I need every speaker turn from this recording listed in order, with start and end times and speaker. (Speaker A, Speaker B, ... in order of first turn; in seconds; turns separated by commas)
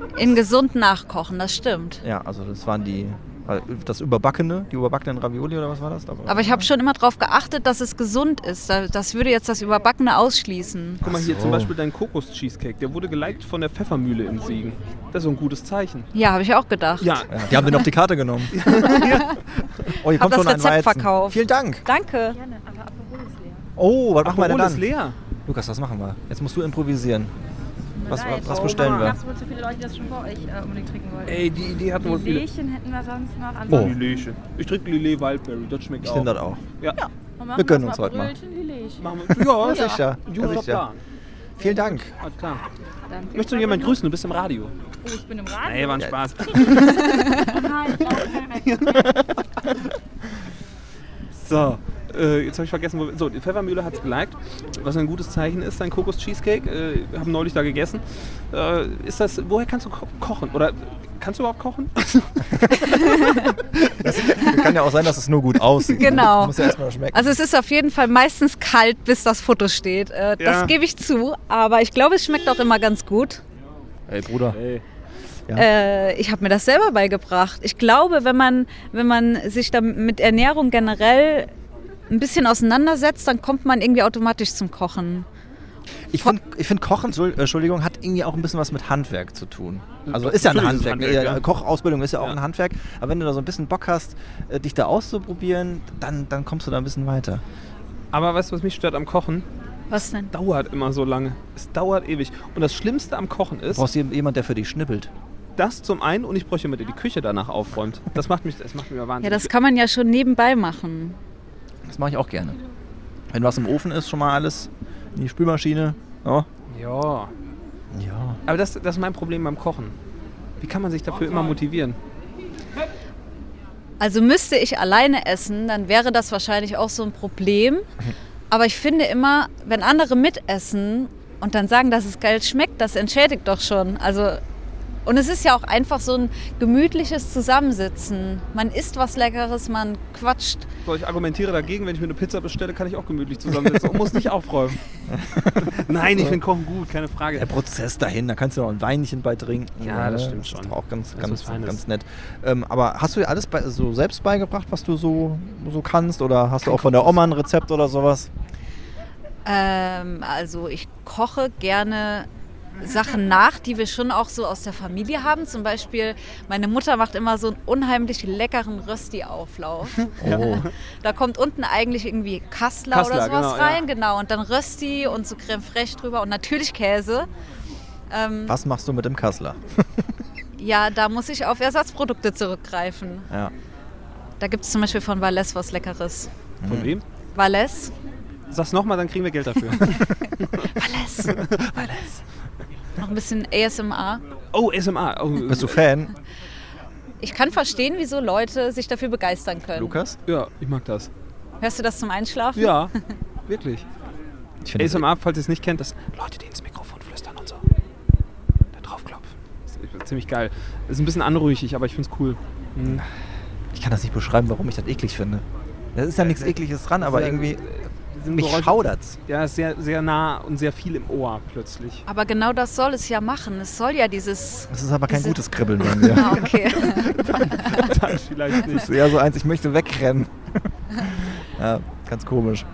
Speaker A: 0.1-2.0, Speaker B: 2.0-6.7, Speaker A: 6.3-11.0, Speaker B: 11.0-11.7, Speaker C: 11.0-16.1, Speaker A: 16.1-17.7, Speaker C: 17.0-17.8, Speaker B: 17.3-18.8, Speaker C: 18.5-19.9, Speaker A: 18.7-19.4, Speaker B: 20.0-21.8, Speaker A: 20.0-22.4, Speaker D: 22.3-23.6, Speaker B: 23.8-24.9, Speaker C: 24.2-25.1, Speaker B: 25.4-27.3, Speaker D: 28.0-34.2, Speaker B: 28.1-29.2, Speaker C: 28.4-29.1, Speaker C: 31.2-32.5, Speaker B: 33.7-33.9, Speaker C: 33.7-37.0, Speaker B: 36.0-36.6, Speaker D: 37.4-39.7, Speaker B: 37.5-38.3, Speaker C: 39.0-41.0, Speaker B: 39.5-40.8, Speaker B: 41.6-42.1, Speaker C: 41.6-42.6, Speaker D: 43.1-44.0, Speaker C: 43.3-44.7, Speaker D: 45.0-48.8, Speaker C: 45.6-49.1, Speaker B: 49.0-49.2, Speaker C: 51.4-63.9, Speaker A: 62.8-63.5, Speaker B: 64.0-67.3, Speaker A: 65.9-73.4, Speaker C: 70.4-70.7, Speaker B: 74.1-74.6, Speaker C: 74.5-74.8, Speaker A: 75.5-81.5, Speaker A: 82.1-85.2, Speaker B: 86.1-97.4, Speaker C: 90.0-91.4, Speaker C: 98.1-99.5, Speaker A: 99.9-100.3, Speaker C: 100.3-103.8, Speaker B: 103.7-105.1, Speaker C: 105.6-109.5, Speaker A: 109.2-111.2, Speaker B: 111.8-112.6, Speaker B: 113.3-116.5, Speaker C: 116.7-117.3, Speaker B: 117.9-118.4, Speaker C: 118.5-119.9, Speaker C: 120.6-122.0, Speaker A: 124.0-127.8, Speaker A: 128.5-134.4, Speaker A: 135.1-140.7, Speaker C: 140.8-144.8, Speaker B: 145.1-146.4, Speaker C: 145.6-147.5, Speaker B: 147.3-158.3, Speaker C: 149.8-151.8, Speaker C: 156.7-157.1, Speaker A: 159.4-162.3, Speaker A: 162.8-170.5, Speaker C: 170.0-170.7, Speaker B: 170.2-170.7, Speaker A: 171.0-177.3, Speaker C: 172.9-173.8, Speaker A: 178.1-178.6, Speaker B: 178.5-180.1, Speaker A: 180.6-183.3, Speaker A: 184.4-186.3, Speaker B: 186.6-186.9, Speaker C: 186.7-187.0, Speaker A: 187.3-187.9, Speaker C: 188.5-190.7, Speaker A: 190.7-191.5, Speaker C: 191.2-192.2, Speaker A: 193.0-194.2, Speaker C: 194.5-195.8, Speaker B: 195.4-196.1, Speaker A: 197.2-199.9, Speaker B: 199.7-200.2, Speaker C: 200.3-201.1, Speaker A: 201.6-202.8, Speaker C: 202.5-202.9, Speaker C: 203.5-203.8, Speaker B: 204.6-205.0, Speaker C: 204.8-207.7, Speaker C: 208.7-213.0, Speaker B: 212.8-213.1, Speaker B: 213.7-217.6, Speaker C: 216.2-222.0, Speaker B: 218.3-219.2, Speaker A: 222.1-227.8, Speaker B: 224.7-226.4, Speaker C: 226.1-229.0, Speaker B: 228.6-232.7